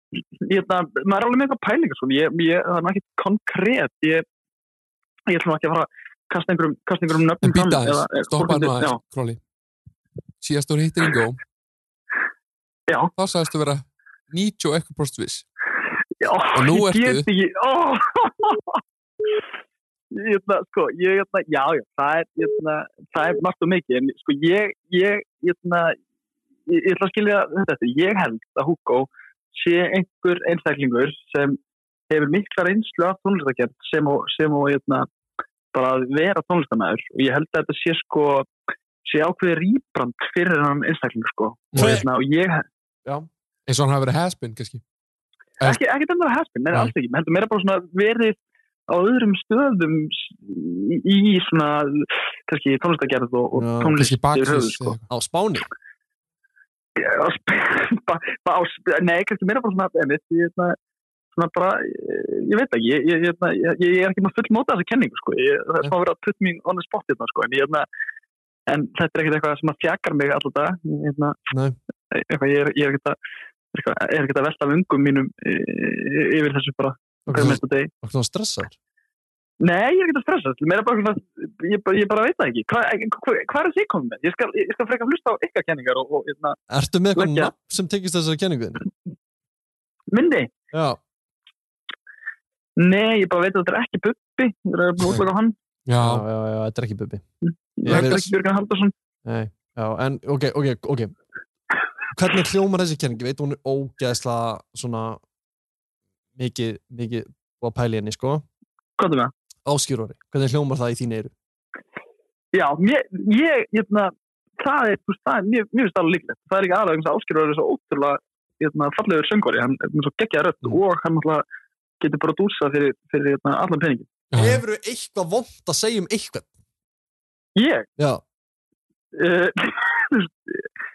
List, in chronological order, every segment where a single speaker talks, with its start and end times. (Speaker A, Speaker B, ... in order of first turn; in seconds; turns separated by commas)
Speaker A: 0.4-4.2, Speaker A: 5.3-9.0, Speaker B: 7.4-9.4, Speaker B: 10.4-11.4, Speaker B: 13.2-15.4, Speaker A: 16.2-18.8, Speaker B: 16.5-17.3, Speaker A: 20.1-26.0, Speaker A: 26.7-31.6, Speaker A: 32.1-35.1, Speaker A: 35.7-38.5, Speaker A: 39.0-42.6, Speaker B: 41.7-42.0, Speaker C: 41.7-42.1, Speaker B: 43.7-44.8, Speaker A: 45.6-48.4, Speaker A: 48.9-55.0, Speaker C: 53.5-54.1, Speaker B: 54.0-55.0, Speaker C: 55.1-55.7, Speaker A: 57.0-60.8, Speaker A: 61.3-67.8, Speaker A: 68.7-71.4, Speaker C: 71.5-71.8, Speaker A: 72.1-73.2, Speaker A: 73.7-77.9, Speaker C: 77.3-78.7, Speaker A: 79.6-86.6, Speaker C: 86.7-88.9, Speaker A: 87.1-87.5, Speaker A: 90.1-90.5, Speaker C: 90.7-91.0, Speaker A: 92.8-95.5, Speaker B: 95.9-96.2, Speaker C: 96.0-97.2, Speaker A: 97.4-98.9, Speaker C: 97.8-98.3, Speaker B: 97.9-98.2, Speaker C: 99.2-101.1, Speaker C: 102.1-105.2, Speaker C: 106.3-108.4, Speaker A: 109.0-109.3, Speaker C: 109.6-111.3, Speaker A: 112.5-121.4, Speaker A: 122.0-124.1, Speaker B: 124.3-124.6, Speaker C: 124.3-126.5, Speaker A: 127.5-127.9, Speaker C: 128.0-128.2, Speaker A: 129.1-130.6